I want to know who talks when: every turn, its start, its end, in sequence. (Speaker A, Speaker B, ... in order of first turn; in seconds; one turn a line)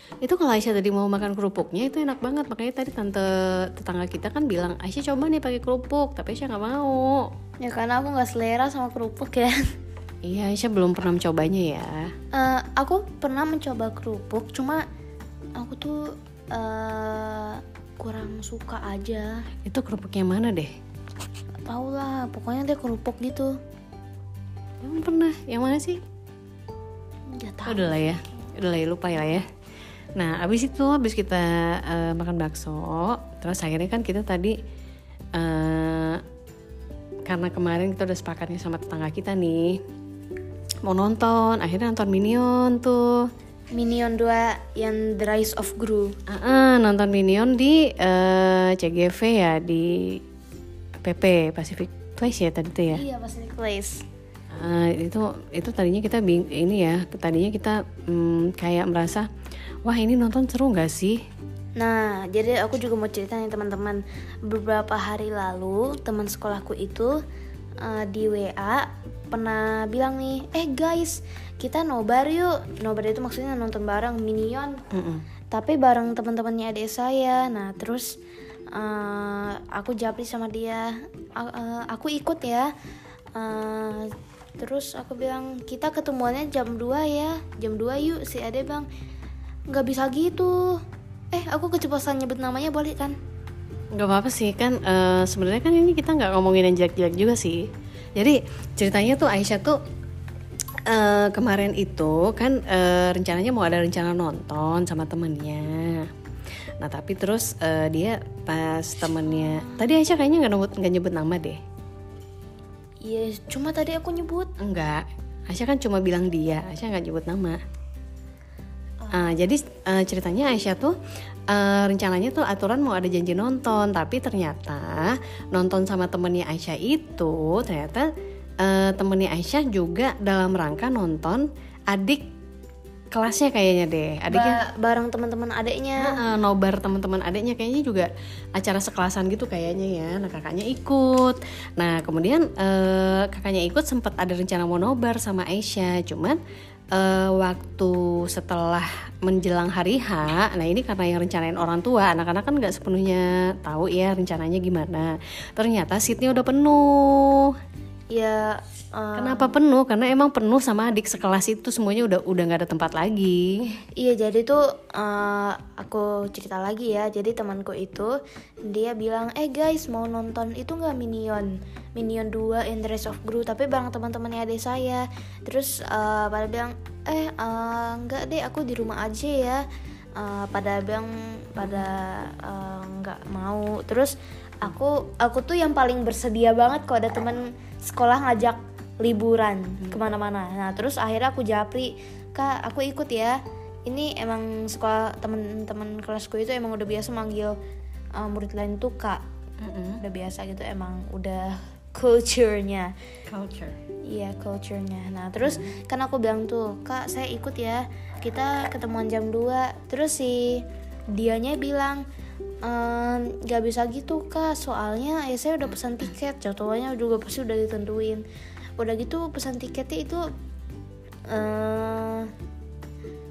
Speaker A: 0.2-7.3
Speaker B: 7.6-9.6
Speaker A: 10.2-12.1
Speaker B: 12.3-14.8
Speaker B: 15.6-19.4
Speaker A: 19.6-20.7
Speaker B: 21.7-23.6
Speaker A: 24.8-26.0
Speaker B: 27.3-28.2
Speaker A: 27.7-29.4
Speaker A: 30.2-34.6
Speaker A: 35.4-36.2
Speaker A: 37.3-39.8
Speaker A: 40.9-43.2
Speaker B: 43.7-46.1
Speaker A: 46.3-50.2
Speaker A: 51.0-53.0
Speaker B: 52.9-54.0
Speaker A: 54.5-59.3
Speaker A: 59.9-61.2
Speaker B: 61.8-67.2
Speaker B: 67.8-74.8
Speaker A: 74.9-75.2
Speaker B: 75.5-78.2
Speaker B: 78.7-82.7
Speaker B: 83.3-88.9
Speaker B: 89.7-90.8
Speaker B: 91.3-93.2
Speaker A: 94.0-99.8
Speaker A: 100.9-106.1
Speaker A: 106.8-111.6
Speaker B: 109.4-109.8
Speaker B: 113.0-114.5
Speaker A: 114.6-117.6
Speaker A: 119.1-121.0
Speaker A: 121.5-128.1
Speaker A: 128.6-132.2
Speaker A: 133.1-134.6
Speaker B: 134.3-136.2
Speaker A: 136.0-146.4
Speaker A: 146.9-157.6
Speaker B: 158.1-159.5
Speaker A: 159.2-163.8
Speaker B: 164.0-179.7
Speaker B: 180.2-197.6
Speaker B: 198.2-199.2
Speaker A: 199.6-200.0
Speaker B: 200.0-202.9
Speaker A: 203.3-203.8
Speaker B: 204.1-212.0
Speaker B: 212.6-218.2
Speaker B: 218.8-220.3
Speaker B: 221.3-222.3